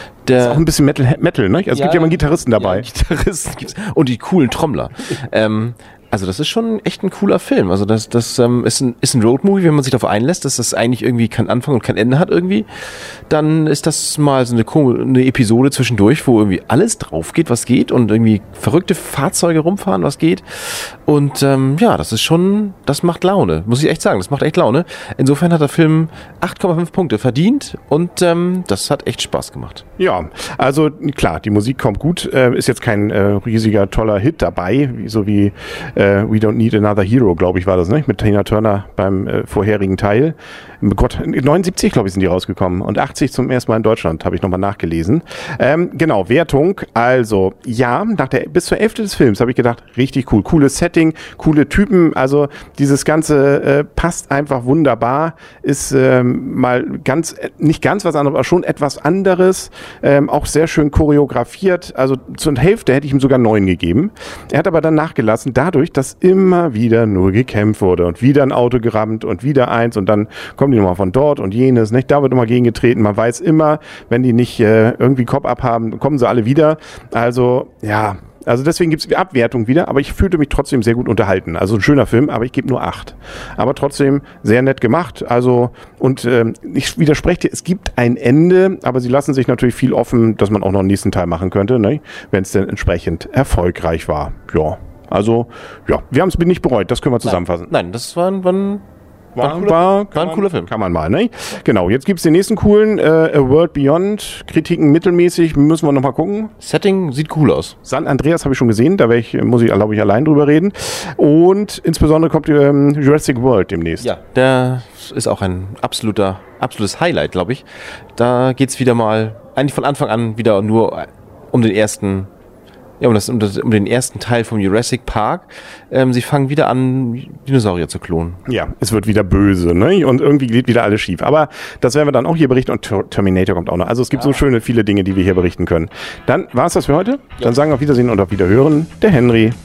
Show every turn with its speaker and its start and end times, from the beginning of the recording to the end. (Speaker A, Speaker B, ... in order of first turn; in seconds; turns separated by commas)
Speaker A: 0.2-0.6, Speaker B: 0.4-2.9, Speaker A: 1.7-29.8, Speaker B: 30.0-97.7, Speaker A: 97.2-98.8, Speaker B: 99.3-106.5, Speaker A: 99.4-100.7, Speaker A: 106.6-107.8, Speaker B: 107.8-114.1, Speaker A: 114.0-117.6, Speaker A: 118.2-122.3, Speaker A: 123.0-128.4, Speaker B: 128.5-139.5